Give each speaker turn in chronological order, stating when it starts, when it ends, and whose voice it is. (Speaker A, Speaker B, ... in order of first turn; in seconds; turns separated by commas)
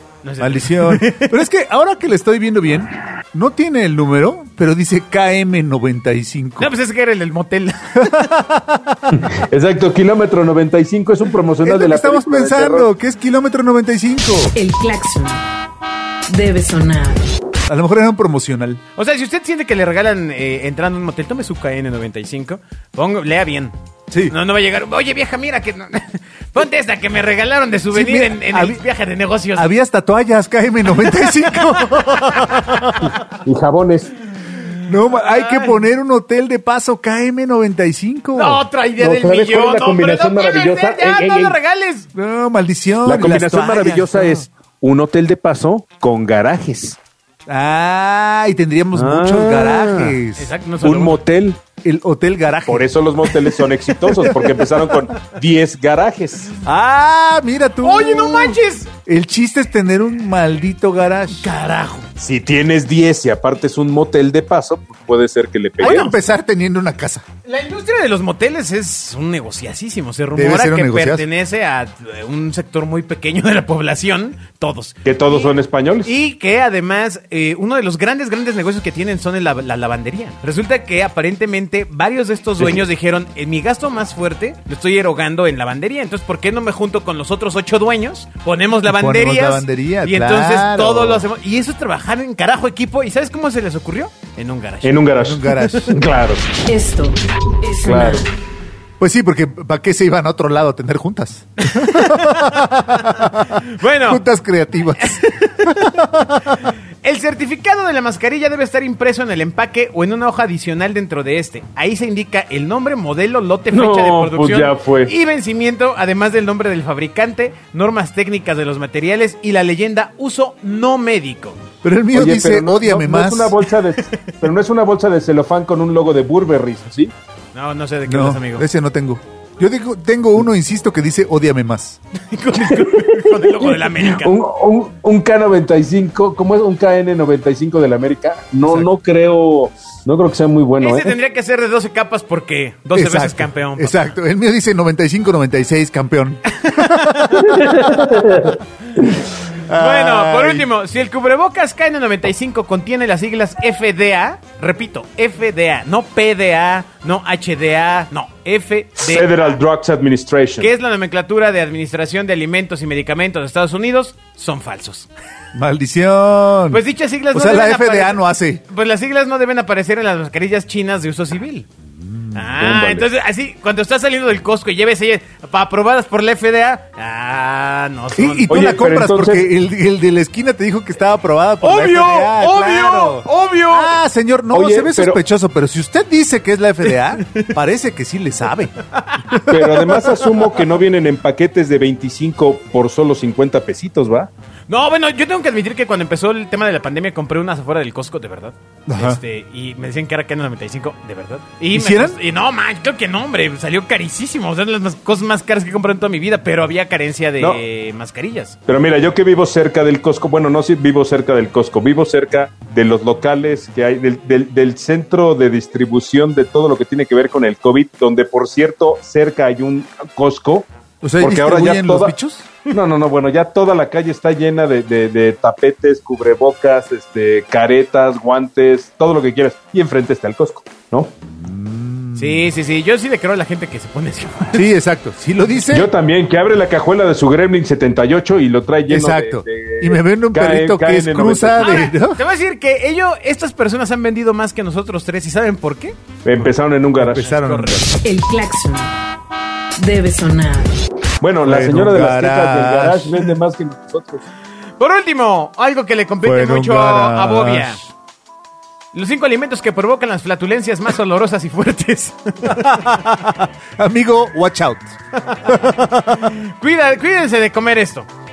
Speaker A: 0.2-1.4, Speaker B: 0.4-6.7, Speaker A: 6.6-8.2, Speaker B: 8.0-9.2, Speaker C: 9.1-12.9, Speaker B: 11.6-14.5, Speaker D: 14.5-15.4, Speaker D: 16.3-17.2, Speaker B: 17.7-18.8, Speaker A: 18.9-23.7, Speaker B: 24.1-24.3, Speaker A: 24.3-29.7, Speaker B: 27.9-28.8, Speaker B: 29.6-33.2, Speaker A: 31.0-32.8, Speaker C: 33.3-34.1, Speaker A: 34.6-35.8, Speaker B: 34.9-38.6, Speaker A: 38.3-42.1, Speaker C: 39.0-41.5, Speaker B: 42.1-44.4, Speaker C: 43.0-47.0, Speaker B: 47.5-50.5, Speaker C: 48.9-50.2, Speaker A: 50.4-51.2, Speaker C: 50.8-51.6, Speaker B: 51.8-52.9, Speaker C: 52.7-56.5, Speaker B: 54.1-54.3, Speaker B: 56.6-61.4, Speaker A: 57.8-58.9, Speaker A: 61.4-62.1, Speaker C: 62.2-66.2, Speaker A: 65.8-66.2, Speaker B: 65.8-67.2, Speaker A: 67.4-75.5, Speaker B: 70.3-71.2, Speaker C: 75.0-76.1, Speaker A: 76.0-95.9, Speaker C: 82.6-82.8, Speaker B: 88.8-91.2, Speaker C: 94.8-96.4, Speaker B: 95.2-96.0, Speaker D: 96.7-98.3, Speaker C: 97.8-98.2, Speaker B: 99.0-106.6, Speaker A: 101.6-102.6, Speaker A: 103.7-104.2, Speaker A: 105.0-106.0, Speaker A: 107.0-121.6, Speaker C: 113.7-115.1, Speaker B: 121.8-123.6, Speaker C: 122.1-127.1, Speaker A: 127.5-128.7, Speaker B: 128.1-132.0, Speaker A: 132.3-134.3, Speaker C: 132.7-141.1, Speaker A: 138.6-138.9, Speaker A: 140.8-144.0, Speaker B: 142.9-147.4, Speaker A: 146.5-147.6, Speaker C: 147.3-148.6, Speaker B: 149.7-150.7, Speaker A: 149.7-159.4, Speaker C: 159.0-160.7, Speaker A: 160.6-165.1, Speaker B: 165.5-168.6, Speaker A: 166.7-171.7, Speaker B: 171.9-172.5, Speaker A: 172.3-178.7, Speaker C: 172.6-173.1, Speaker B: 178.2-188.8, Speaker C: 178.5-179.5, Speaker A: 181.6-183.9, Speaker C: 184.5-185.2, Speaker A: 187.0-187.5, Speaker A: 188.9-190.4, Speaker B: 189.3-189.6, Speaker C: 189.5-194.3, Speaker A: 194.7-208.6, Speaker B: 198.9-199.2, Speaker B: 201.7-202.2, Speaker C: 208.7-220.7, Speaker B: 221.0-222.5, Speaker C: 221.2-222.1, Speaker C: 222.7-231.1, Speaker B: 231.3-232.5, Speaker A: 232.1-234.7, Speaker B: 234.5-235.9, Speaker C: 235.7-241.7, Speaker B: 238.9-242.2, Speaker A: 241.6-246.0, Speaker C: 246.2-247.3, Speaker B: 247.0-247.9, Speaker A: 247.2-247.8, Speaker D: 248.0-248.9, Speaker D: 249.8-250.8, Speaker C: 251.2-254.2, Speaker B: 251.4-253.3, Speaker A: 254.8-257.8, Speaker B: 256.2-257.8, Speaker A: 258.9-262.9, Speaker B: 262.4-266.4, Speaker A: 266.2-268.1